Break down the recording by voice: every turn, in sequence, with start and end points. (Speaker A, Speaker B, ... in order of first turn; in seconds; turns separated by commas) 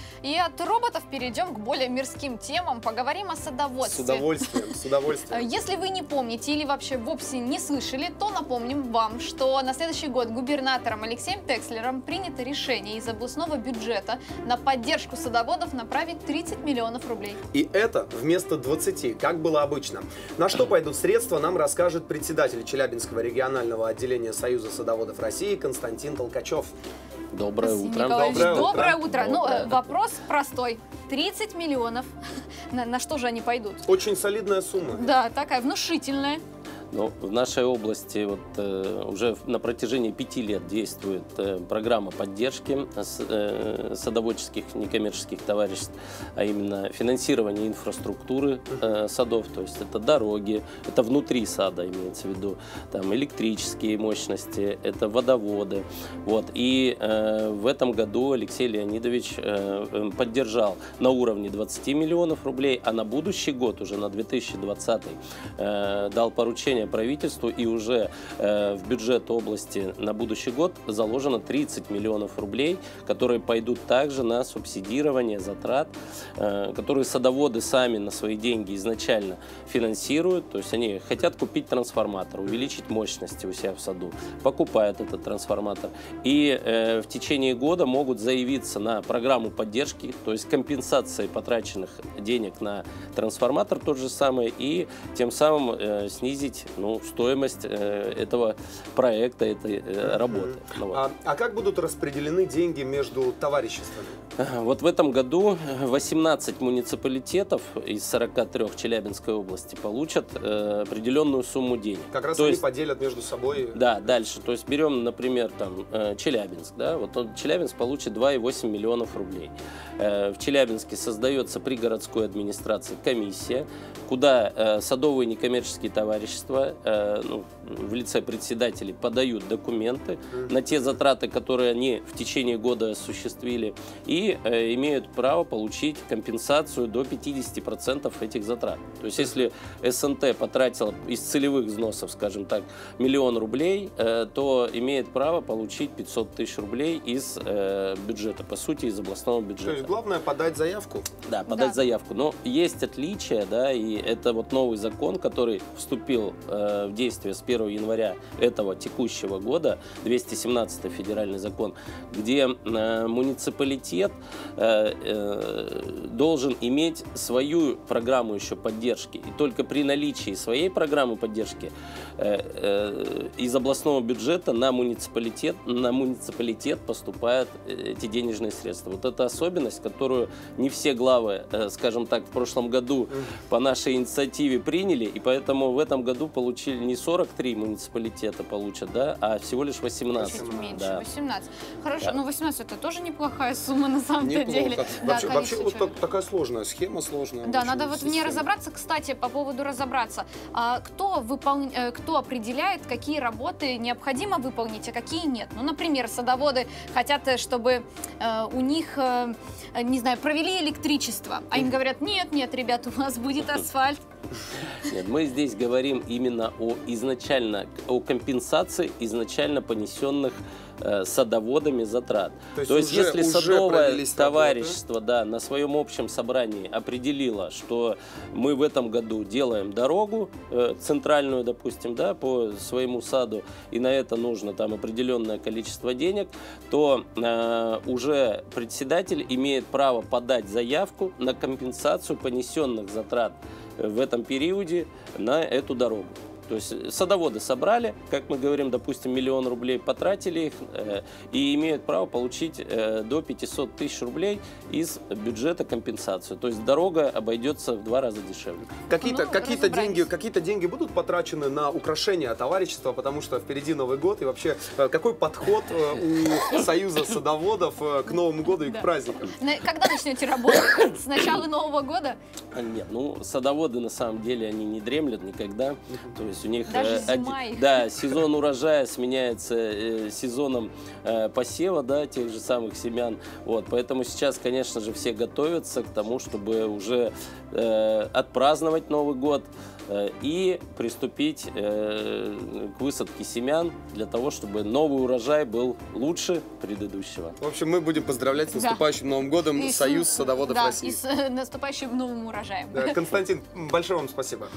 Speaker A: 0.2-4.7, Speaker B: 3.8-5.4, Speaker A: 5.3-17.4, Speaker B: 17.5-26.7, Speaker C: 27.3-29.9, Speaker A: 27.6-32.1, Speaker B: 28.1-28.9, Speaker A: 32.7-33.8, Speaker B: 33.9-35.1, Speaker A: 34.9-36.4, Speaker C: 36.9-101.0, Speaker B: 100.0-104.2, Speaker C: 104.4-112.6, Speaker B: 112.1-113.8, Speaker C: 113.7-149.9, Speaker B: 149.6-151.1, Speaker C: 151.2-191.0, Speaker A: 151.5-151.8, Speaker B: 190.1-190.8, Speaker A: 190.2-195.9, Speaker B: 194.2-198.4, Speaker A: 197.4-214.0, Speaker C: 214.8-258.7, Speaker B: 222.5-224.8, Speaker B: 258.9-269.3, Speaker A: 259.0-260.1, Speaker A: 268.5-272.2, Speaker C: 272.5-297.4, Speaker A: 276.7-277.8, Speaker B: 297.4-301.0, Speaker A: 298.5-298.8, Speaker A: 299.5-303.0, Speaker B: 302.7-304.5